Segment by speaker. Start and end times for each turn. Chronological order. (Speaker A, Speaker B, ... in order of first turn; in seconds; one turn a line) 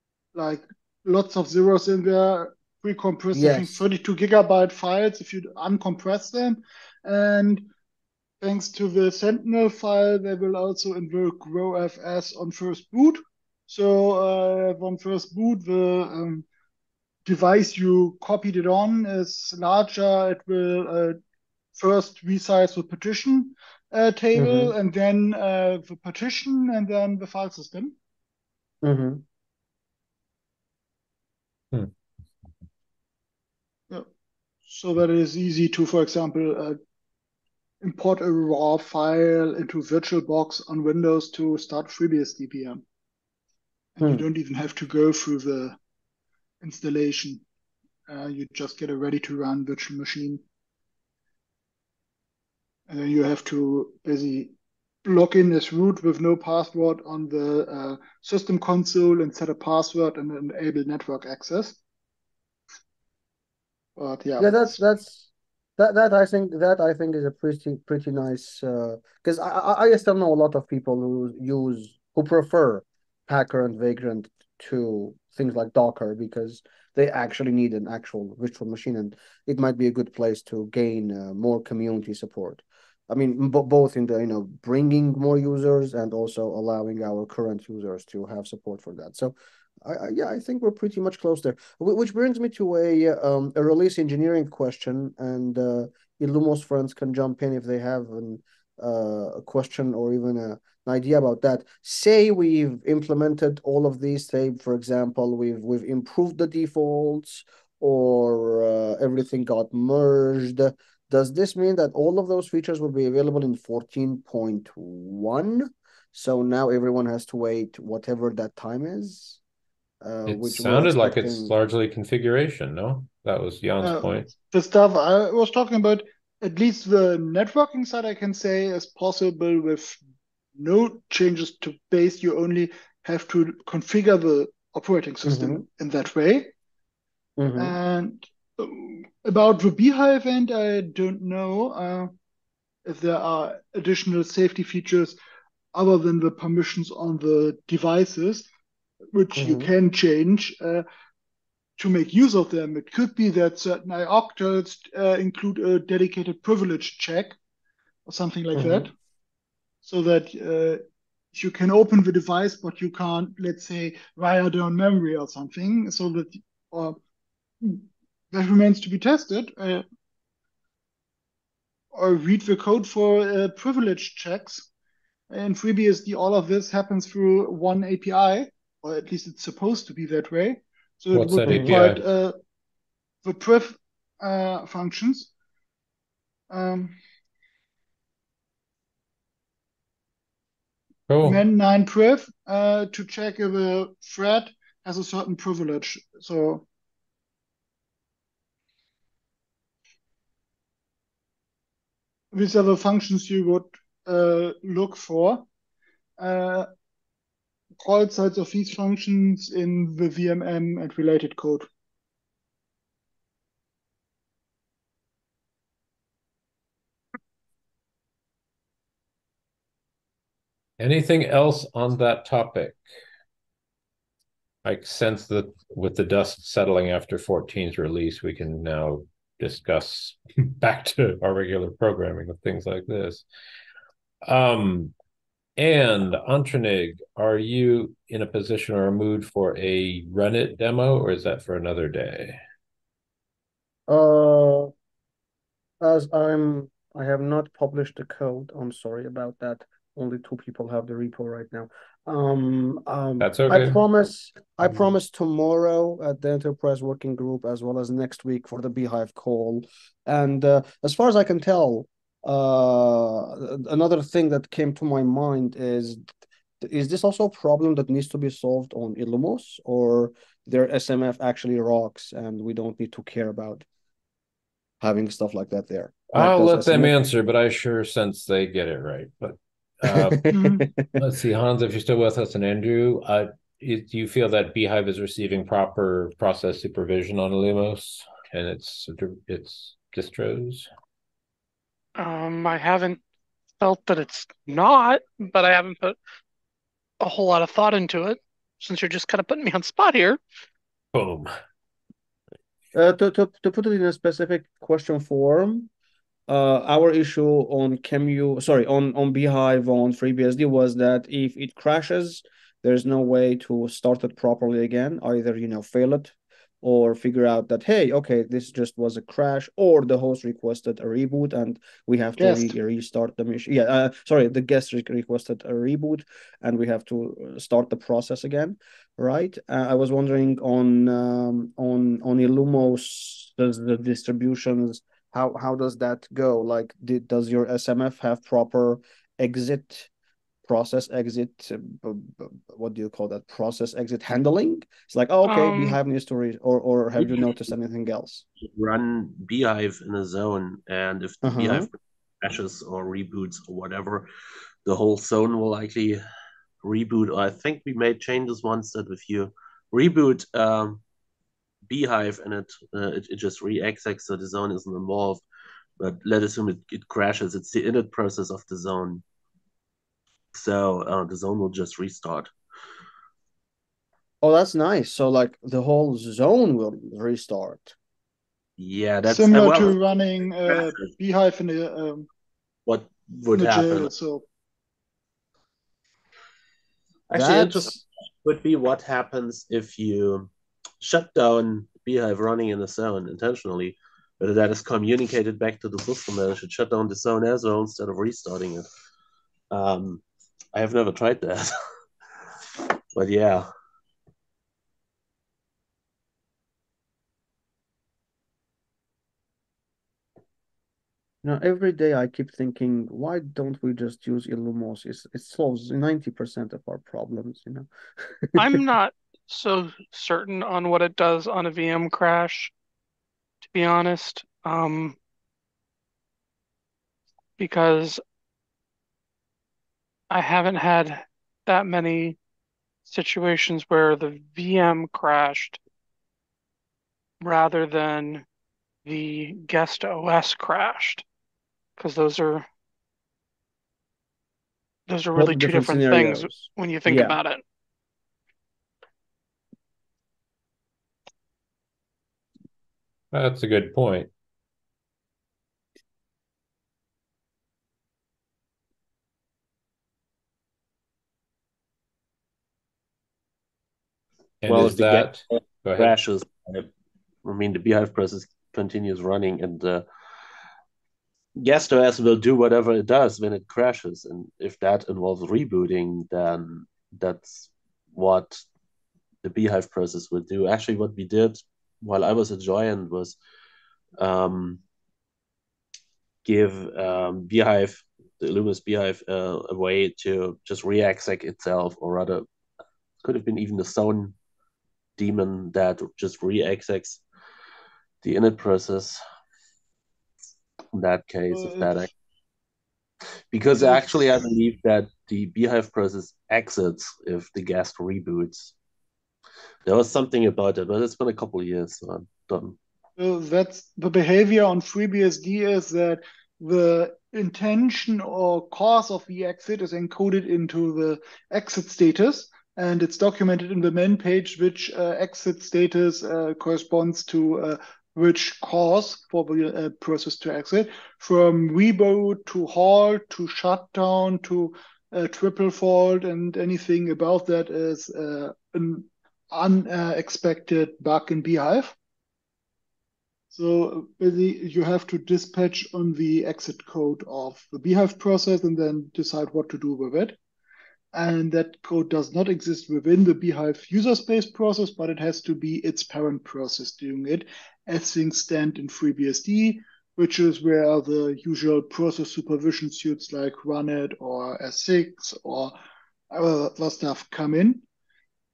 Speaker A: 0.3-7.7
Speaker B: 3.3-3.8
Speaker A: 8.4-16.4
Speaker A: 17.2-21.2
Speaker A: 21.8-27.9
Speaker B: 24.4-24.7
Speaker B: 28.8-29.2
Speaker A: 34.7-36.8
Speaker A: 37.8-42.8
Speaker A: 44.0-45.8
Speaker B: 44.0-44.3
Speaker A: 46.6-47.4
Speaker A: 48.1-50.4
Speaker A: 52.9-54.5
Speaker A: 55.0-61.8
Speaker A: 64.0-64.7
Speaker B: 64.4-119.4
Speaker B: 120.0-121.5
Speaker C: 120.3-124.3
Speaker A: 123.8-130.0
Speaker A: 130.6-136.5
Speaker B: 135.2-135.6
Speaker B: 137.4-137.8
Speaker A: 137.6-142.1
Speaker A: 142.9-145.2
Speaker A: 145.7-148.5
Speaker A: 149.1-150.8
Speaker B: 149.4-149.7
Speaker A: 151.8-157.4
Speaker A: 158.1-158.9
Speaker B: 158.5-158.9
Speaker A: 159.8-160.8
Speaker A: 161.3-167.0
Speaker A: 167.6-169.8
Speaker A: 171.9-174.7
Speaker A: 175.3-182.3
Speaker C: 181.1-182.0
Speaker B: 181.5-181.8
Speaker A: 183.2-185.3
Speaker A: 186.5-187.0
Speaker C: 191.1-191.4
Speaker A: 191.2-196.7
Speaker A: 202.3-205.5
Speaker A: 206.2-206.7
Speaker A: 207.8-211.7
Speaker C: 220.8-222.8
Speaker C: 224.6-233.2
Speaker C: 234.2-234.9
Speaker C: 235.6-242.4
Speaker B: 243.9-244.7
Speaker B: 245.8-266.0
Speaker C: 253.2-253.8
Speaker B: 266.6-273.6
Speaker B: 274.8-276.9
Speaker C: 276.1-280.2
Speaker B: 279.9-281.0
Speaker A: 280.3-280.6
Speaker C: 281.0-290.7
Speaker D: 292.0-293.0
Speaker D: 293.6-296.0
Speaker D: 297.0-300.2
Speaker C: 300.9-301.3
Speaker B: 302.7-305.7
Speaker B: 306.3-339.9
Speaker A: 322.2-322.6
Speaker B: 340.4-348.2
Speaker D: 345.2-345.8
Speaker E: 348.4-354.1
Speaker B: 351.2-351.7
Speaker E: 354.6-356.0
Speaker E: 356.6-360.8
Speaker E: 361.7-365.2
Speaker E: 365.8-369.0
Speaker E: 370.3-372.3
Speaker B: 374.2-377.7
Speaker E: 378.6-379.8
Speaker A: 379.1-382.1
Speaker E: 380.6-380.9
Speaker E: 382.7-383.9
Speaker A: 383.3-384.2
Speaker E: 387.1-398.7
Speaker B: 387.1-387.8
Speaker E: 399.5-400.0
Speaker E: 400.5-401.5
Speaker E: 402.9-403.5
Speaker B: 411.2-418.6
Speaker D: 418.4-422.5
Speaker D: 423.5-425.0
Speaker D: 427.4-428.0
Speaker D: 430.1-432.2
Speaker D: 432.9-435.6
Speaker D: 437.2-438.3
Speaker D: 438.9-441.0
Speaker D: 441.8-442.5
Speaker D: 444.9-447.4
Speaker B: 445.1-447.2
Speaker C: 453.1-454.1
Speaker C: 464.4-466.0
Speaker E: 464.5-465.2
Speaker E: 465.8-466.7
Speaker E: 467.2-469.9
Speaker E: 471.4-478.4
Speaker E: 479.2-483.2
Speaker E: 484.0-484.6
Speaker E: 486.2-492.3
Speaker E: 493.0-494.1
Speaker E: 495.0-497.0
Speaker E: 498.0-499.0
Speaker E: 500.7-501.9
Speaker A: 501.4-501.9
Speaker E: 503.3-508.5
Speaker A: 503.6-504.1
Speaker E: 509.7-512.6
Speaker A: 513.0-541.8
Speaker A: 543.3-550.2
Speaker A: 550.9-565.5
Speaker A: 566.1-567.6